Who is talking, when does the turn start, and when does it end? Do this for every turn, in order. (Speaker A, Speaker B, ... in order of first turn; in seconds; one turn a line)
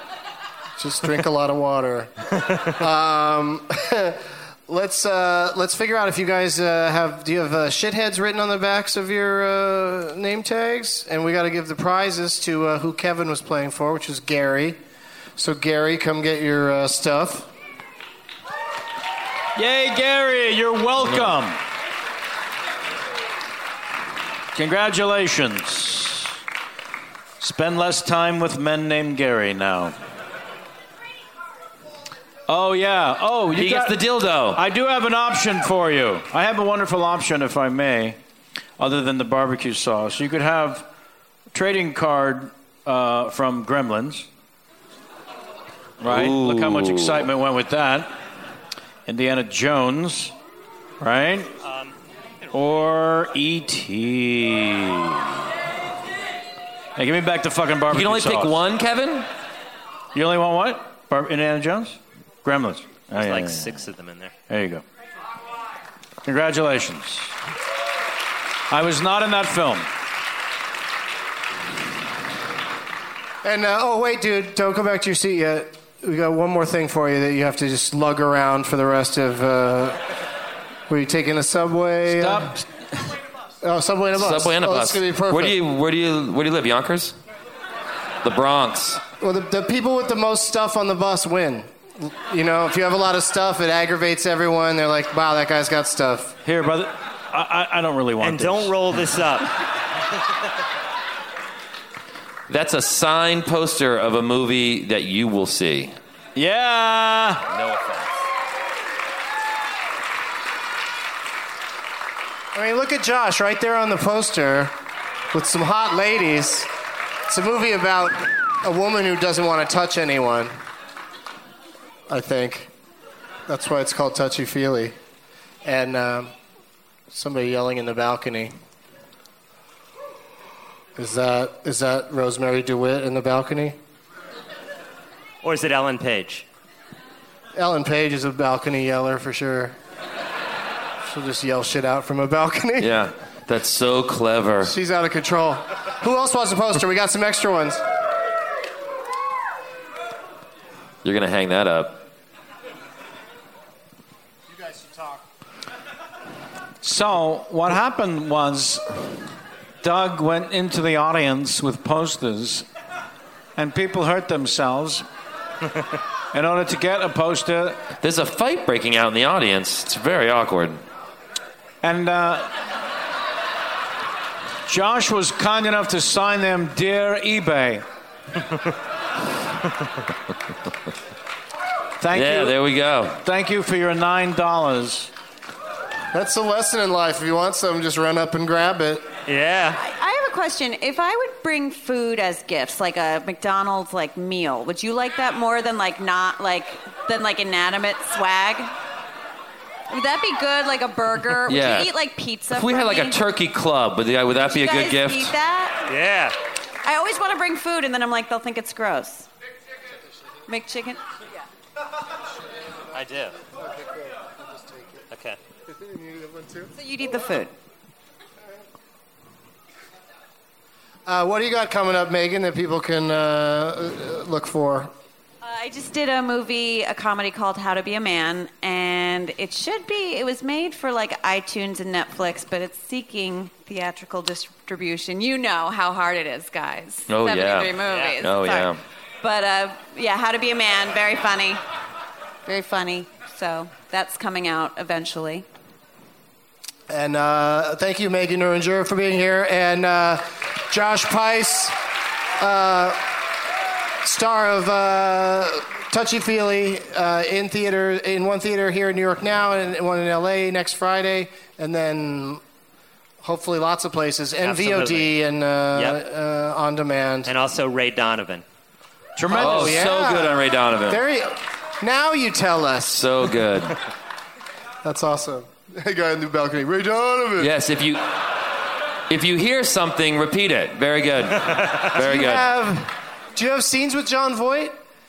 Speaker A: 0.8-14.8
Speaker A: 15.4-17.5
Speaker B: 19.6-21.6
Speaker C: 21.0-21.3
Speaker B: 24.5-26.4
Speaker B: 27.4-29.9
Speaker B: 32.5-38.2
Speaker C: 33.5-34.6
Speaker B: 38.8-40.9
Speaker B: 41.5-44.3
Speaker B: 46.0-48.1
Speaker C: 46.1-47.3
Speaker B: 49.1-50.4
Speaker B: 51.0-51.5
Speaker D: 51.6-51.9
Speaker B: 52.5-55.2
Speaker B: 57.0-58.6
Speaker C: 57.9-59.3
Speaker B: 60.1-63.9
Speaker D: 63.1-64.3
Speaker B: 64.5-64.8
Speaker B: 66.2-67.3
Speaker B: 68.7-69.9
Speaker A: 73.4-80.0
Speaker A: 80.9-82.6
Speaker B: 82.1-83.0
Speaker A: 83.6-85.6
Speaker C: 84.1-87.2
Speaker C: 88.2-89.0
Speaker A: 89.2-96.4
Speaker B: 96.4-99.0
Speaker D: 98.2-99.5
Speaker C: 102.5-106.0
Speaker B: 106.3-107.5
Speaker C: 107.5-108.1
Speaker A: 112.5-114.7
Speaker A: 115.3-116.7
Speaker A: 117.3-120.5
Speaker A: 122.1-122.7
Speaker A: 123.5-125.0
Speaker A: 125.6-126.3
Speaker A: 127.1-128.5
Speaker A: 130.9-133.8
Speaker D: 135.4-136.4
Speaker A: 137.6-139.8
Speaker A: 141.1-142.9
Speaker C: 142.8-144.7
Speaker A: 144.6-147.8
Speaker C: 151.0-152.1
Speaker B: 156.8-158.8
Speaker B: 159.8-162.7
Speaker B: 163.6-165.1
Speaker B: 166.3-167.8
Speaker C: 168.0-170.8
Speaker B: 171.8-172.5
Speaker B: 174.7-177.8
Speaker B: 182.0-182.6
Speaker C: 182.1-183.2
Speaker B: 183.2-185.1
Speaker A: 186.1-189.1
Speaker D: 189.3-189.8
Speaker E: 189.8-198.7
Speaker E: 199.9-203.2
Speaker C: 201.5-201.9
Speaker C: 202.5-205.3
Speaker E: 204.4-205.9
Speaker D: 205.9-206.3
Speaker E: 206.8-209.3
Speaker E: 210.5-211.0
Speaker D: 212.9-213.3
Speaker A: 213.8-214.1
Speaker D: 215.1-215.4
Speaker A: 215.8-216.7
Speaker E: 216.7-217.5
Speaker A: 221.1-224.9
Speaker E: 225.4-241.6
Speaker C: 237.1-238.8
Speaker D: 237.8-238.2
Speaker E: 242.4-245.4
Speaker A: 246.9-251.7
Speaker A: 252.4-253.0
Speaker A: 254.0-262.4
Speaker A: 263.2-267.3
Speaker D: 264.4-265.2
Speaker D: 265.7-266.0
Speaker D: 267.3-268.4
Speaker B: 269.1-269.9
Speaker A: 269.3-273.3
Speaker C: 269.3-271.0
Speaker C: 272.9-273.8
Speaker A: 274.8-277.5
Speaker C: 277.4-278.1
Speaker C: 279.1-282.5
Speaker A: 281.9-284.8